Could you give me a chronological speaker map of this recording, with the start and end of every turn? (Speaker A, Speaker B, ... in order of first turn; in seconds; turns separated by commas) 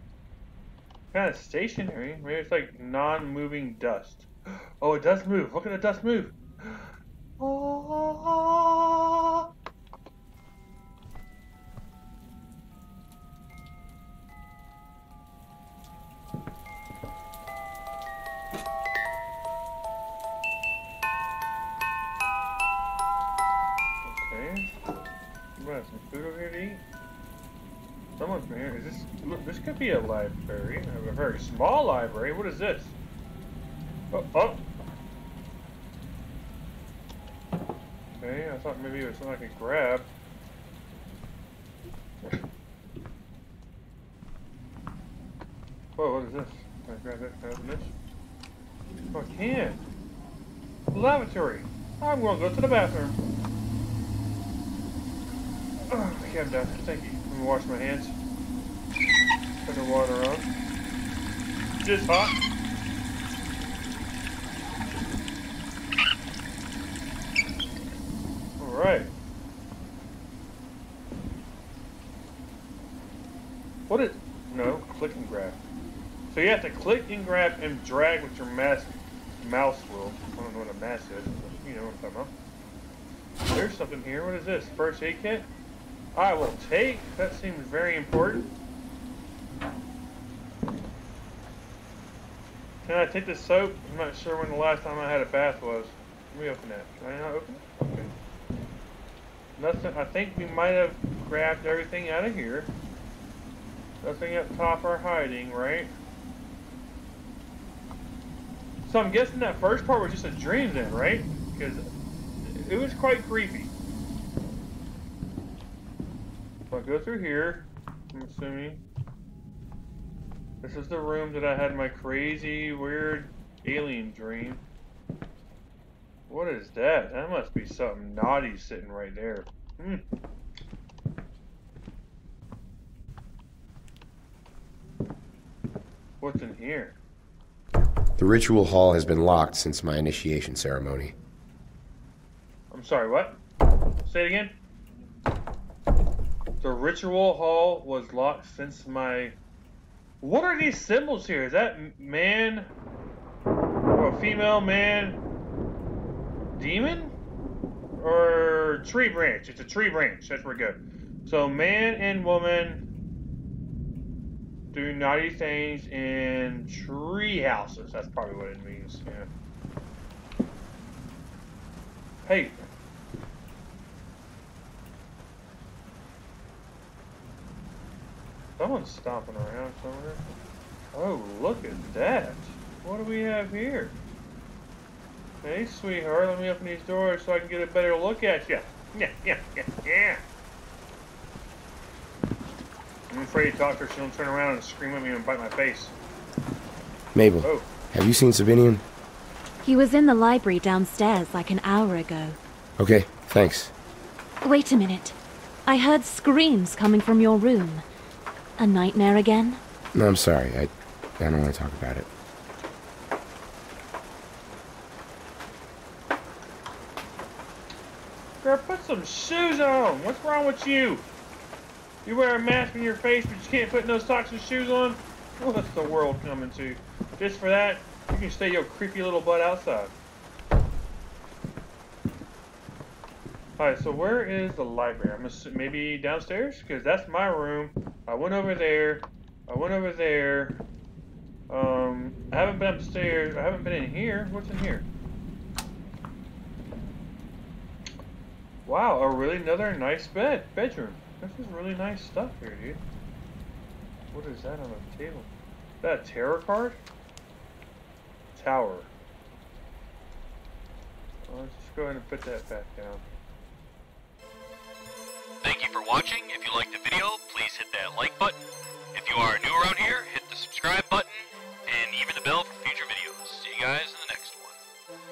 Speaker A: 1.1-9.5, Speaker A: 24.1-24.7, Speaker A: 25.6-26.8, Speaker A: 28.2-33.0, Speaker A: 34.1-34.6, Speaker A: 38.2-40.1, Speaker A: 46.0-47.9, Speaker A: 49.1-49.8, Speaker A: 50.9-53.2, Speaker A: 55.9-58.2, Speaker A: 59.6-60.5, Speaker A: 61.8-62.4, Speaker A: 68.6-69.1, Speaker A: 73.9-75.6, Speaker A: 76.3-82.3, Speaker A: 83.5-85.5, Speaker A: 86.1-88.5, Speaker A: 92.8-98.1, Speaker A: 99.6-102.7, Speaker A: 104.0-105.9, Speaker A: 108.8-111.8, Speaker A: 112.4-113.7, Speaker A: 116.7-118.8, Speaker A: 120.6-124.6, Speaker A: 126.3-130.1, Speaker A: 136.2-137.0, Speaker B: 138.2-141.1, Speaker A: 142.7-143.4, Speaker A: 144.0-144.6, Speaker A: 146.6-149.4, Speaker A: 150.2-152.7, Speaker A: 153.9-155.2, Speaker A: 156.6-157.1, Speaker A: 158.0-162.8, Speaker A: 164.7-169.3, Speaker A: 172.2-172.6, Speaker A: 178.6-180.3, Speaker A: 180.9-184.0, Speaker A: 185.4-190.2, Speaker A: 193.1-196.0, Speaker B: 197.1-198.8, Speaker A: 197.4-197.7, Speaker C: 199.6-202.4, Speaker B: 202.8-203.7, Speaker C: 204.4-207.8, Speaker C: 208.6-209.6, Speaker B: 209.9-212.1, Speaker A: 218.4-221.1, Speaker A: 222.1-229.9, Speaker A: 233.6-240.6, Speaker A: 241.5-244.9, Speaker A: 248.7-252.8, Speaker A: 254.1-255.3, Speaker A: 255.8-256.8, Speaker A: 258.3-258.9, Speaker A: 261.3-263.0, Speaker D: 265.4-268.4, Speaker D: 268.9-274.6